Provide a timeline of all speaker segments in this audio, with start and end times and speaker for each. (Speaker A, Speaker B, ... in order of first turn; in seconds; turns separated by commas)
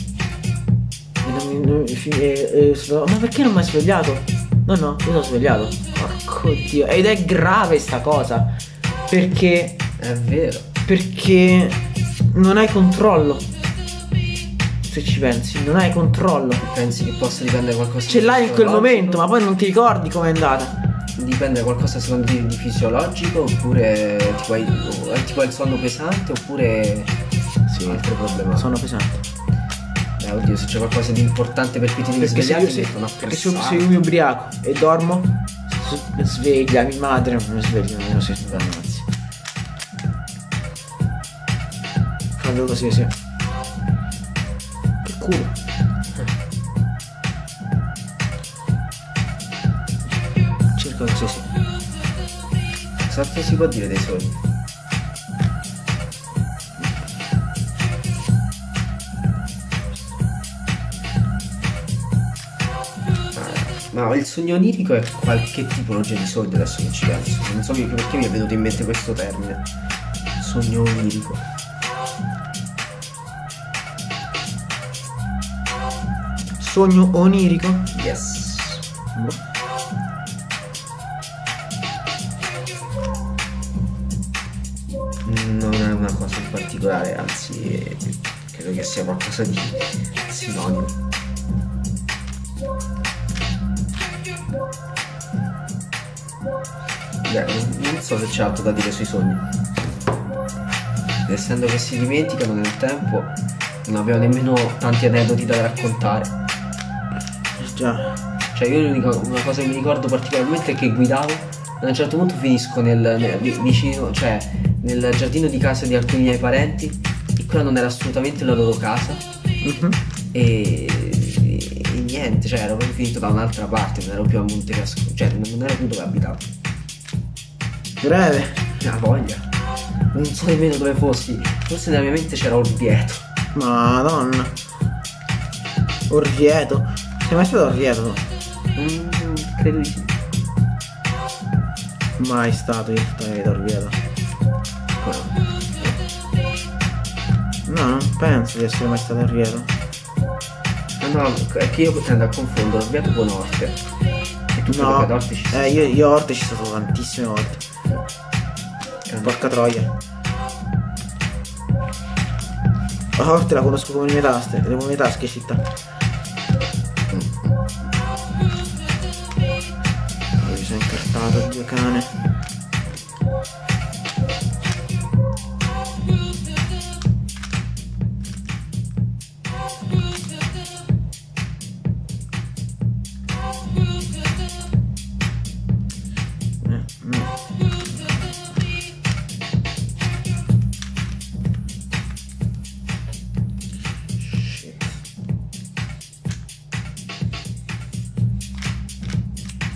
Speaker A: 1.2-8.5, Speaker A: 9.1-9.8, Speaker B: 10.0-10.7, Speaker A: 10.9-13.5, Speaker A: 14.8-16.6, Speaker B: 16.6-19.2, Speaker A: 18.1-20.8, Speaker B: 21.2-27.2, Speaker A: 27.7-29.2, Speaker B: 27.8-28.8, Speaker B: 30.2-33.9, Speaker A: 32.2-39.1, Speaker A: 42.4-43.1, Speaker A: 45.0-45.6, Speaker A: 50.8-51.5, Speaker B: 53.0-54.4, Speaker B: 63.3-69.6, Speaker B: 70.4-71.4, Speaker A: 76.6-77.9, Speaker B: 77.9-78.8, Speaker A: 79.2-79.4, Speaker B: 85.2-91.0, Speaker B: 97.2-99.5, Speaker B: 101.3-106.3, Speaker A: 107.6-108.2, Speaker B: 108.5-119.2, Speaker A: 119.6-120.0, Speaker B: 120.3-126.5, Speaker A: 128.0-128.6, Speaker B: 128.8-129.5, Speaker B: 130.1-133.2, Speaker A: 133.5-134.6, Speaker A: 136.1-138.2, Speaker B: 138.8-140.2, Speaker A: 142.2-144.0, Speaker B: 145.0-146.0, Speaker A: 147.7-149.7, Speaker B: 151.0-153.8, Speaker B: 154.5-155.9, Speaker A: 154.7-157.6, Speaker B: 159.1-159.6, Speaker A: 159.2-159.9, Speaker A: 163.2-165.7, Speaker B: 167.1-167.6, Speaker A: 170.4-172.2, Speaker A: 186.6-187.3, Speaker A: 194.2-195.0